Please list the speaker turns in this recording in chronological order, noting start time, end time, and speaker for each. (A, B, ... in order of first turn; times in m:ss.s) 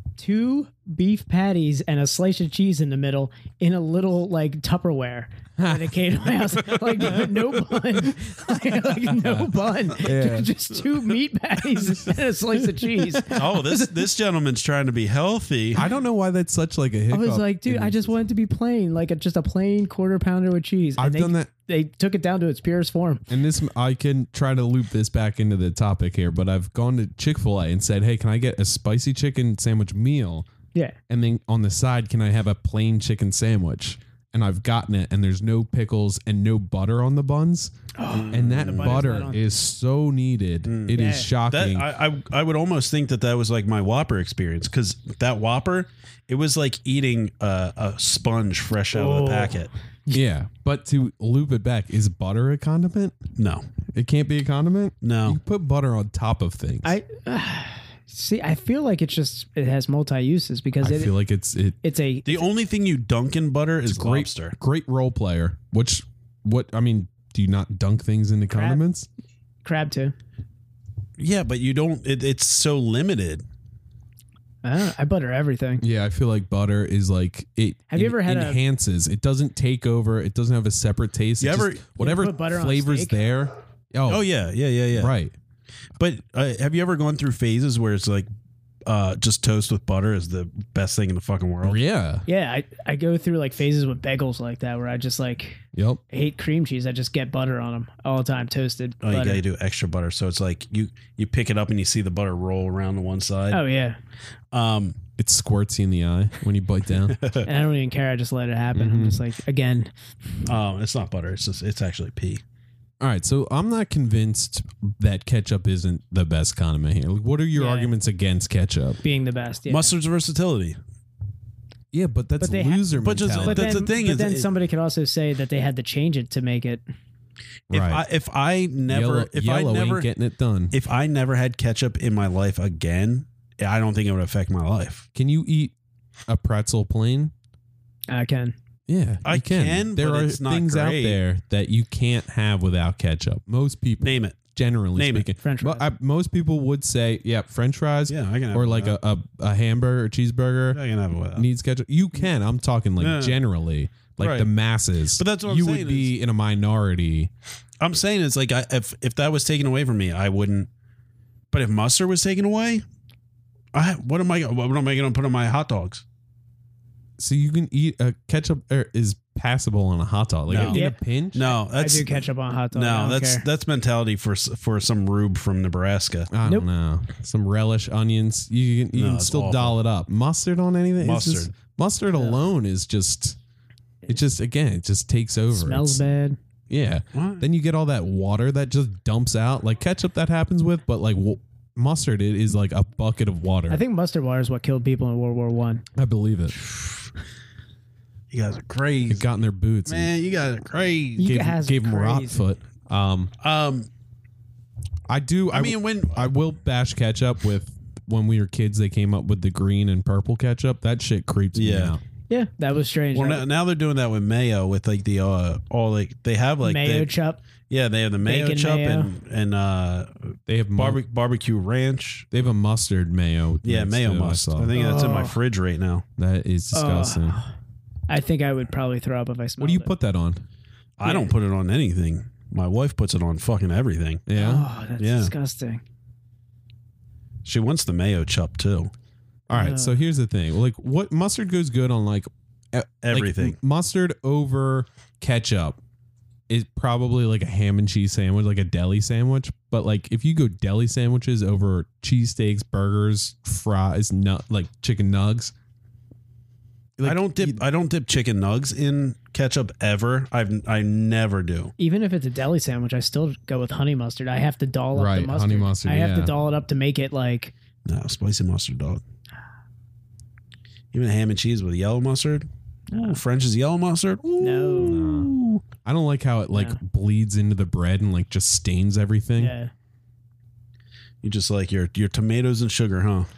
0:00.2-0:13.9 A
0:05.6-0:07.7 B
0:09.0-0:10.5 B
0:13.3-0:15.8 C
0:15.8-0:18.1 B
0:17.1-0:23.2 A
0:21.0-0:21.5 B
0:23.3-0:30.5 B
0:31.1-0:37.7 B
0:38.0-0:39.4 A
0:38.1-0:39.1 C
0:38.3-0:41.9 B
0:40.6-0:49.7 C
0:40.9-0:41.3 A
0:48.9-0:50.2 A
0:50.1-0:53.2 B
0:53.4-0:53.7 C
0:53.9-0:57.0 B
0:55.0-0:55.4 C
0:56.8-1:01.1 A
1:00.8-1:01.8 B
1:01.8-1:02.4 A
1:02.3-1:04.6 C
1:03.8-1:09.1 B
1:08.5-1:08.8 A
1:09.6-1:10.1 A
1:11.2-1:13.4 C
1:14.6-1:15.8 A
1:15.8-1:24.2 B
1:17.9-1:18.6 A
1:21.4-1:21.8 C
1:22.0-1:23.2 A
1:24.1-1:25.1 C
1:25.0-1:25.3 B
1:26.0-1:28.3 C
1:28.9-1:31.8 C
1:31.6-1:32.2 B
1:32.3-1:39.4 A
1:35.7-1:36.0 B
1:39.0-1:43.6 C
1:43.5-1:44.0 A
1:44.5-1:45.0 C
1:45.2-1:47.2 B
1:47.1-1:47.5 C
1:47.4-1:49.9 A
1:48.7-1:49.2 B
1:50.4-1:52.4 C
1:53.0-1:59.0 B
1:57.6-1:57.9 A
1:59.0-1:59.9 A
1:59.7-2:00.8 C
2:01.9-2:03.7 B
2:02.4-2:02.8 A
2:03.0-2:04.5 C
2:03.4-2:06.8 A
2:07.7-2:08.0 B
2:07.7-2:10.1 C
2:08.9-2:10.8 B
2:10.7-2:15.1 C
2:15.2-2:15.7 B
2:16.3-2:17.3 B
2:18.1-2:18.6 A
2:18.9-2:30.8 B
2:19.2-2:21.2 C
2:24.0-2:25.3 C
2:25.4-2:25.8 A
2:28.1-2:29.0 C
2:30.7-2:31.5 C
2:31.4-2:37.3 B
2:33.0-2:33.4 C
2:34.2-2:34.5 C
2:35.2-2:36.2 C
2:37.8-2:40.7 C
2:41.5-2:42.8 C
2:43.7-2:46.0 C
2:47.2-2:51.4 B
2:50.5-2:56.3 C
2:50.6-2:51.0 A
2:51.5-2:53.4 A
2:56.3-3:03.4 B
2:58.9-2:59.8 C
3:01.0-3:01.5 C
3:04.1-3:06.0 B
3:05.5-3:06.4 A
3:06.7-3:13.8 B
3:07.1-3:07.4 C
3:13.7-3:15.8 A
3:16.0-3:16.6 B
3:18.3-3:19.3 C
3:19.1-3:20.1 B
3:19.9-3:21.4 C
3:21.2-3:22.4 A
3:21.2-3:23.3 B
3:23.4-3:23.9 C
3:25.1-3:32.0 B
3:25.5-3:26.3 C
3:31.6-3:32.0 C
3:32.3-3:33.4 A
3:33.1-3:37.1 C
3:36.6-3:37.4 A
3:37.7-3:42.3 C
3:38.2-3:39.1 A
3:40.5-3:41.0 B
3:42.3-3:44.8 B
3:43.6-3:46.0 C
3:44.7-3:45.4 A
3:46.2-3:47.4 B
3:46.7-3:47.5 A
3:48.1-3:49.9 A
3:49.6-3:50.4 B
3:51.0-3:54.3 C
3:51.0-3:51.3 A
3:54.3-3:54.7 B
3:54.4-3:55.8 A
3:55.0-3:55.3 C
3:57.4-3:58.9 C
3:59.5-4:05.8 B
3:59.5-4:00.0 A
4:03.0-4:03.6 C
4:06.5-4:15.5 B
4:17.0-4:17.6 B
4:17.0-4:21.7 C
4:21.8-4:27.5 A
4:25.0-4:26.3 B
4:27.9-4:29.0 C
4:30.9-4:35.6 C
4:32.9-4:33.2 A
4:34.4-4:35.0 A
4:34.8-4:39.5 B
4:36.5-4:36.8 A
4:39.4-4:39.7 A
4:41.2-4:43.3 C